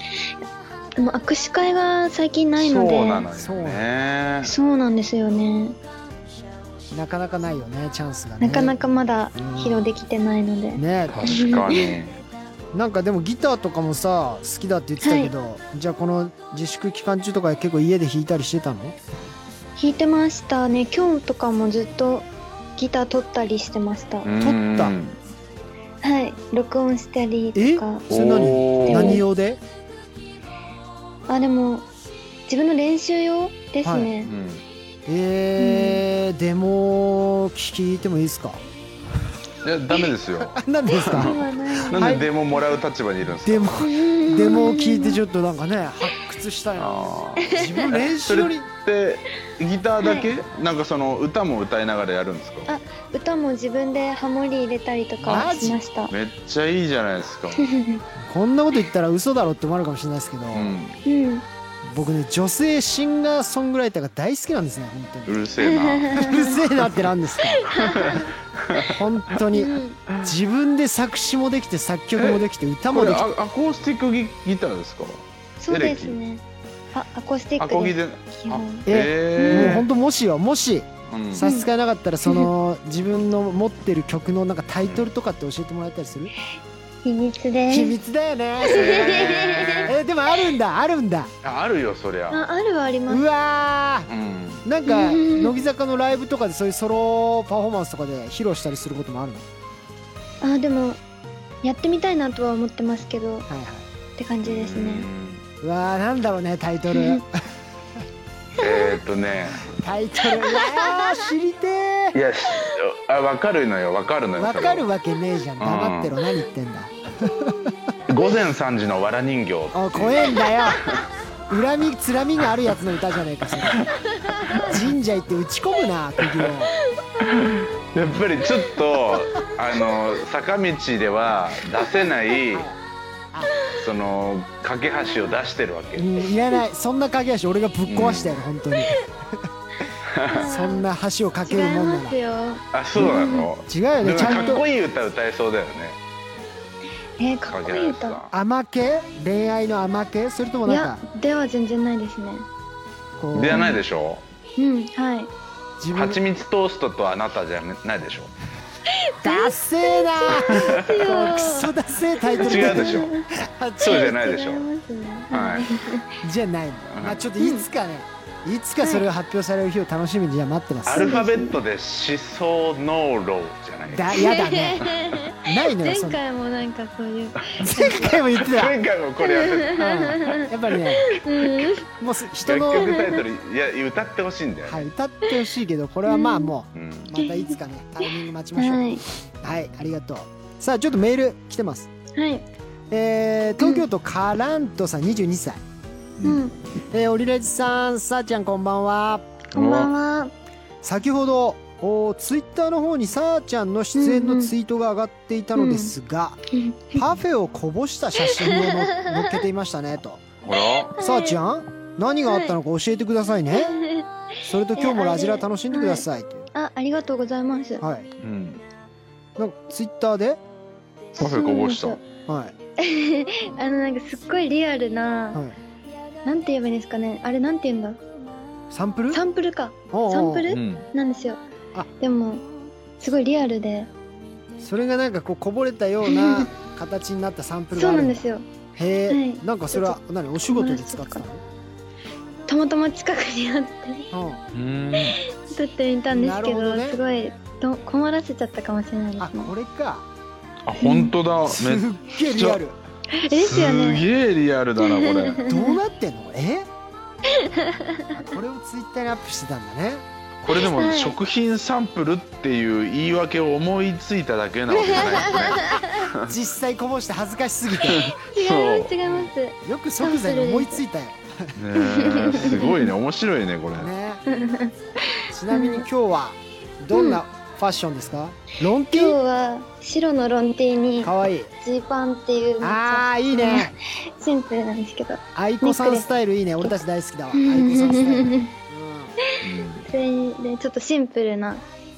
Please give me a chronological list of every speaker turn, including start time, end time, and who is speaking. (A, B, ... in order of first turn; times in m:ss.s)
0:01.0-0:03.3 A
0:02.6-0:04.5 B
0:03.3-0:03.8 C
0:04.4-0:05.8 A
0:06.9-0:08.8 C
0:08.4-0:12.0 A
0:09.4-0:09.9 C
0:10.8-0:11.4 C
0:11.1-0:12.2 B
0:12.7-0:19.0 C
0:15.0-0:15.3 A
0:19.8-0:24.3 A
0:24.2-0:25.2 B
0:24.4-0:25.0 C
0:26.0-0:28.0 A
0:27.6-0:29.6 C
0:28.1-0:29.2 B
0:28.8-0:29.2 A
0:31.3-0:31.9 A
0:32.5-0:34.3 A
0:33.8-0:34.1 C
0:34.2-0:34.6 B
0:35.1-0:38.6 C
0:35.6-0:36.0 A
0:39.6-0:43.9 B
0:40.4-0:41.4 C
0:41.0-0:42.3 A
0:41.9-0:42.3 C
0:43.4-0:48.7 C
0:43.8-0:45.2 A
0:46.8-0:52.7 B
0:47.4-0:47.8 A
0:50.0-0:50.3 A
0:52.7-0:56.1 A
0:55.2-0:55.8 C
0:56.1-0:57.7 B
0:57.6-0:58.0 A
0:58.2-1:00.8 C
1:00.5-1:01.0 B
1:01.0-1:01.5 A
1:01.8-1:05.4 C
1:05.3-1:07.0 B
1:05.6-1:06.6 A
1:06.1-1:07.6 C
1:07.5-1:08.3 A
1:07.6-1:09.0 B
1:08.8-1:13.3 C
1:09.5-1:10.0 A
1:12.2-1:16.2 B
1:15.6-1:16.4 A
1:16.9-1:19.8 A
1:17.6-1:19.9 B
1:18.9-1:26.3 C
1:21.1-1:21.5 B
1:21.4-1:21.7 A
1:22.2-1:22.5 A
1:27.0-1:27.9 A
1:27.7-1:31.3 C
1:28.6-1:30.0 B
1:28.7-1:29.9 A
1:31.4-1:32.4 B
1:32.3-1:33.2 A
1:33.1-1:34.1 C
1:34.1-1:34.6 B
1:34.6-1:39.4 C
1:34.9-1:35.5 A
1:40.4-1:41.0 A
1:41.6-1:43.5 A
1:43.5-1:43.9 C
1:44.2-1:45.1 A
1:44.4-1:45.4 B
1:45.6-1:47.4 C
1:46.9-1:47.2 A
1:48.6-1:49.7 B
1:48.6-1:48.9 A
1:49.6-1:52.2 C
1:50.5-1:51.1 A
1:52.1-1:54.9 B
1:54.4-1:57.7 C
1:55.6-1:56.2 B
1:58.1-2:01.0 B
1:59.7-2:03.9 C
2:03.7-2:04.9 B
2:04.6-2:06.7 C
2:07.2-2:12.7 B
2:12.5-2:12.8 C
2:13.7-2:16.2 B
2:16.0-2:19.1 C
2:17.9-2:18.4 B
2:20.1-2:20.5 B
2:20.3-2:20.9 A
2:20.4-2:22.2 C
2:21.5-2:23.5 A
2:22.7-2:26.0 B
2:23.0-2:24.6 C
2:24.2-2:24.6 A
2:27.2-2:28.2 A
2:27.5-2:28.3 B
2:28.3-2:31.0 C
2:30.7-2:32.5 A
2:33.2-2:33.8 C
2:33.3-2:34.2 B
2:33.5-2:33.8 A
2:34.6-2:35.3 A
2:35.8-2:36.2 C
2:35.9-2:38.3 B
2:38.9-2:41.7 A
2:39.2-2:44.1 C
2:40.3-2:41.0 B
2:42.2-2:43.3 A
2:42.4-2:43.1 B
2:43.8-2:44.7 B
2:43.8-2:46.1 A
2:45.3-2:45.8 B
2:46.2-2:51.3 C
2:46.9-2:47.2 B
2:47.4-2:47.7 A
2:50.9-2:54.3 B
2:50.9-2:51.6 A
2:53.9-2:54.9 C
2:54.2-2:58.1 A
2:55.4-2:56.2 C
2:57.6-2:58.8 C
2:58.4-3:00.5 B
2:59.2-3:01.9 A
2:59.8-3:01.2 C
3:01.3-3:01.7 B
3:02.0-3:03.0 C
3:02.4-3:04.9 B
3:02.7-3:03.2 A
3:04.6-3:11.9 C
3:06.1-3:06.5 A
3:06.8-3:07.1 B
3:07.2-3:07.5 A
3:08.6-3:09.0 A
3:12.2-3:12.4 A
3:12.9-3:15.6 C
3:13.6-3:13.9 A
3:16.2-3:16.5 A
3:16.9-3:19.4 C
3:19.6-3:19.9 B
3:19.6-3:20.3 A
3:20.8-3:26.4 C
3:24.0-3:24.5 A
3:25.6-3:25.9 A
3:26.5-3:27.0 A
3:26.9-3:30.2 C
3:28.3-3:29.3 A
3:30.4-3:31.0 B
3:31.0-3:31.4 A
3:31.0-3:33.8 C
3:32.3-3:32.6 A
3:33.5-3:34.1 A
3:34.4-3:36.5 C
3:34.8-3:37.9 A
3:37.8-3:38.1 C
3:38.2-3:38.6 B
3:39.4-3:40.4 C
3:41.2-3:42.0 B
3:41.2-3:42.0 A
3:42.3-3:42.6 C
3:42.8-3:45.4 A
3:46.2-3:48.0 A
3:48.7-3:49.2 C
3:49.1-3:51.4 A
3:49.9-3:50.5 C
3:50.5-3:50.9 B
3:52.0-3:52.5 A
3:53.0-3:53.9 A
3:54.6-3:58.2 C
3:56.1-3:56.5 A
3:57.8-3:58.5 A
3:58.8-4:01.4 C
3:59.1-4:01.2 A
4:02.5-4:04.1 A
4:04.1-4:04.4 C
4:04.5-4:05.2 B
4:05.1-4:09.5 A
4:06.1-4:07.0 C
4:09.2-4:10.1 C
4:10.6-4:12.6 B
4:10.8-4:11.1 A
4:11.5-4:12.8 C
4:13.1-4:14.0 A
4:13.3-4:15.4 B
4:14.8-4:15.8 A
4:15.4-4:16.7 C
4:17.3-4:18.1 A
4:18.1-4:20.0 C
4:20.4-4:26.3 B
4:20.5-4:21.2 A
4:24.7-4:25.9 A
4:26.2-4:28.1 C
4:27.8-4:28.9 B
4:28.1-4:30.8 A
4:29.0-4:31.5 C
4:31.6-4:33.9 B
4:31.8-4:32.9 A
4:33.8-4:34.2 C
4:34.3-4:35.9 A
4:35.3-4:39.2 C
4:36.9-4:37.2 A
4:38.9-4:46.1 A
4:41.0-4:41.5 C
4:42.6-4:43.8 C
4:45.4-4:49.2 C
4:47.4-4:48.5 A
4:49.4-4:49.9 B
4:49.9-4:51.6 A